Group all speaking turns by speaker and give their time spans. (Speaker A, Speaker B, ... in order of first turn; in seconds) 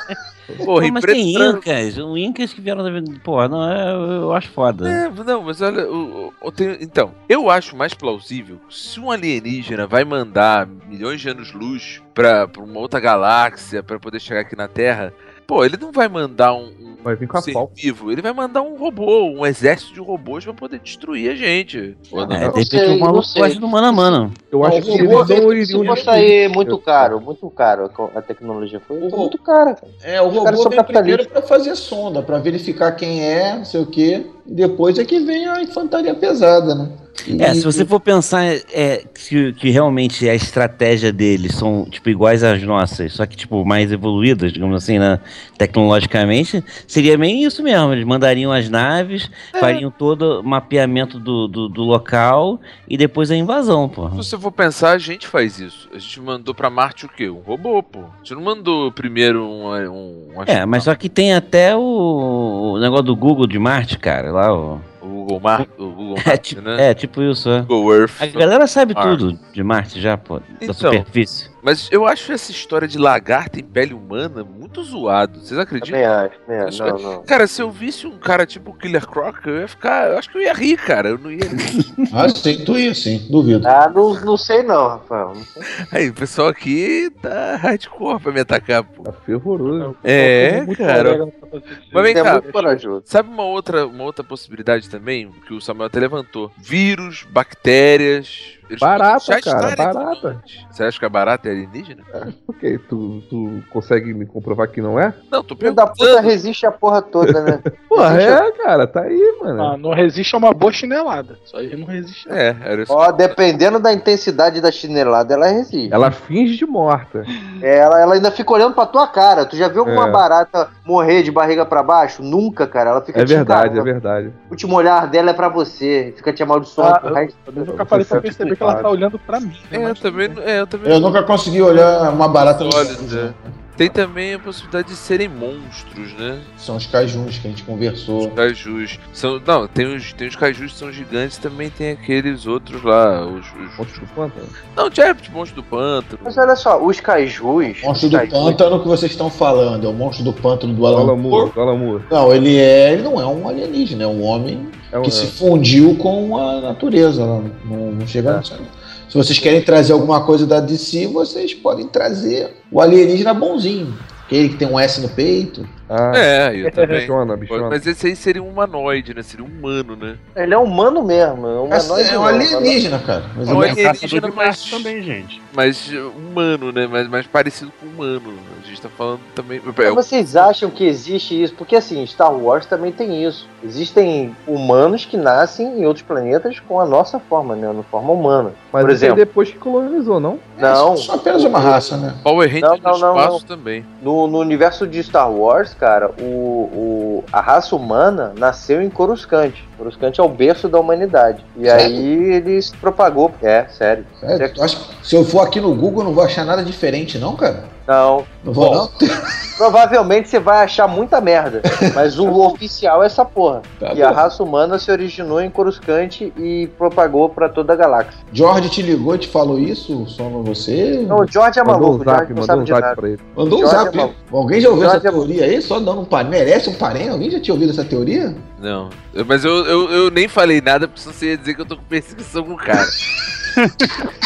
Speaker A: 0.6-1.6, 4.8-22.5, 54.2-60.9, 65.0-66.9, 67.7-69.2, 70.6-71.0, 71.6-76.0, 76.6-81.8, 85.9-89.1, 90.0-91.2, 91.9-102.1, 105.3-106.4, 112.3-113.4, 129.7-136.5, 138.2-144.0, 144.7-146.5, 166.1-170.2, 173.5-174.9, 175.5-180.7, 192.2-193.9, 228.6-232.9
Speaker B: 0.8-5.0, 22.3-24.5, 37.4-54.3, 60.5-64.8, 66.2-71.5, 81.5-82.1
Speaker C: 17.0-17.7, 22.4-22.8, 24.5-27.1, 89.0-90.0, 98.8-100.4, 102.1-105.2, 107.3-109.8, 115.9-117.3, 119.8-120.2, 123.1-124.4, 127.6-128.9, 143.8-144.6, 150.9-152.1, 154.9-155.3, 165.9-166.3, 166.8-167.8, 188.7-190.6, 221.6-223.2
Speaker D: 22.4-31.3, 75.8-77.2, 83.6-85.7, 92.1-93.0, 105.6-108.4, 112.9-116.0, 117.6-123.9, 124.5-127.7, 146.2-148.6, 170.4-172.8, 179.8-189.2, 190.6-191.9, 192.6-193.4, 194.0-204.6, 207.9-208.9, 209.6-218.2, 221.1-224.2, 224.8-225.3
Speaker E: 24.6-26.3, 29.0-29.4, 30.0-37.9, 82.1-83.7, 130.8-133.6, 136.6-138.4, 147.8-151.5, 152.1-165.7, 171.7-173.8, 190.6-192.2, 201.7-202.1, 204.2-207.7, 208.4-209.1, 211.7-212.5, 213.8-214.2, 218.3-221.3, 223.3-228.4
Speaker F: 89.6-92.8, 109.6-112.4, 126.8-130.4, 166.7-167.0
Speaker G: 173.5-175.4, 233.6-233.9